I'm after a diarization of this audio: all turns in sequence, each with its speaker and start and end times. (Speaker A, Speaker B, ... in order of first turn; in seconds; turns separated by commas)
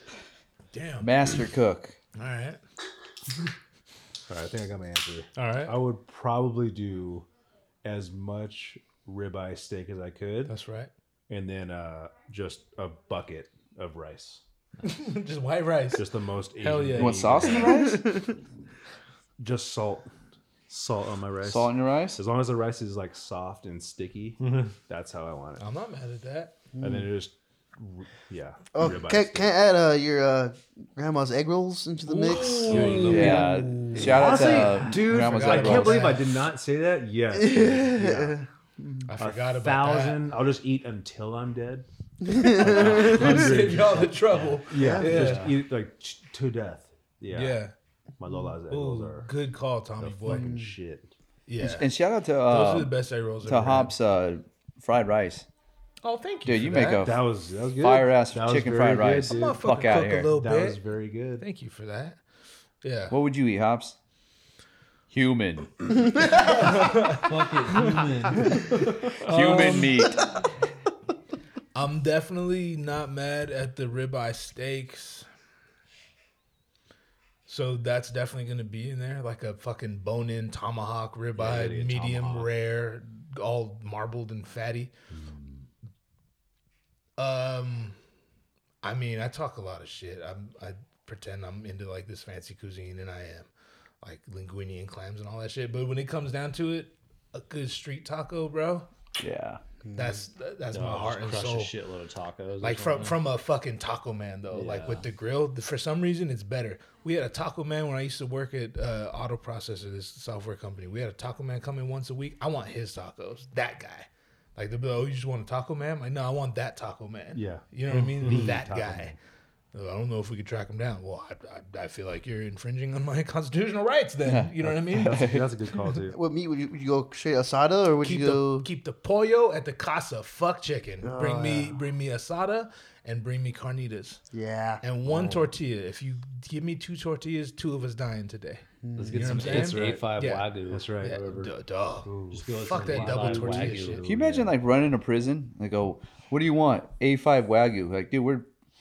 Speaker A: 0.7-1.1, Speaker B: 1.0-2.0, Speaker A: 2.1-2.6, Speaker C: 4.3-7.3, Speaker A: 5.3-5.8, Speaker C: 7.8-10.6, Speaker A: 10.4-10.9, Speaker C: 11.3-14.4, Speaker A: 14.8-17.5, Speaker C: 15.9-17.9, Speaker B: 17.0-18.1, Speaker D: 17.6-18.3, Speaker C: 19.4-20.1, Speaker C: 20.7-25.6, Speaker B: 21.4-22.2, Speaker A: 25.6-26.6, Speaker D: 26.8-27.1, Speaker C: 26.8-29.6, Speaker D: 28.7-33.0, Speaker A: 32.1-36.3, Speaker E: 32.6-33.5, Speaker C: 32.6-33.1, Speaker B: 33.0-36.1, Speaker C: 33.9-38.4, Speaker D: 37.3-39.0, Speaker A: 39.0-40.2, Speaker C: 39.2-47.6, Speaker D: 42.2-43.3, Speaker A: 42.6-45.5, Speaker D: 44.7-45.3, Speaker A: 47.3-47.7, Speaker C: 48.2-49.3, Speaker A: 48.7-50.5, Speaker C: 50.0-51.1, Speaker D: 50.3-50.7, Speaker A: 51.5-51.9, Speaker B: 51.6-55.5, Speaker A: 52.4-53.9, Speaker A: 56.0-57.1, Speaker B: 56.4-60.3, Speaker C: 56.8-61.4, Speaker A: 59.3-60.8, Speaker A: 61.4-62.2, Speaker A: 62.8-63.1, Speaker B: 63.1-64.0, Speaker B: 65.1-66.3, Speaker A: 66.3-67.2, Speaker E: 66.9-68.9, Speaker B: 69.2-70.2, Speaker A: 69.2-69.9, Speaker A: 71.7-75.3, Speaker A: 77.5-84.9, Speaker E: 81.3-82.5, Speaker C: 85.1-85.7, Speaker A: 87.2-88.0, Speaker A: 88.8-93.5, Speaker A: 94.0-98.9, Speaker B: 99.2-99.6, Speaker D: 99.9-100.2, Speaker A: 99.9-101.7, Speaker E: 100.7-103.2, Speaker A: 102.6-119.2, Speaker E: 104.5-105.0, Speaker C: 117.3-119.1, Speaker A: 119.7-125.3, Speaker B: 124.2-124.5, Speaker C: 124.6-126.2, Speaker B: 125.1-125.5, Speaker D: 126.1-128.7, Speaker A: 128.0-134.2, Speaker D: 131.0-131.8, Speaker D: 134.3-134.8, Speaker A: 134.8-140.5, Speaker C: 135.1-135.5, Speaker D: 138.8-139.3, Speaker E: 138.9-141.5, Speaker C: 139.2-141.2, Speaker A: 141.0-144.0, Speaker C: 142.1-144.5, Speaker E: 142.3-144.2, Speaker B: 144.0-148.5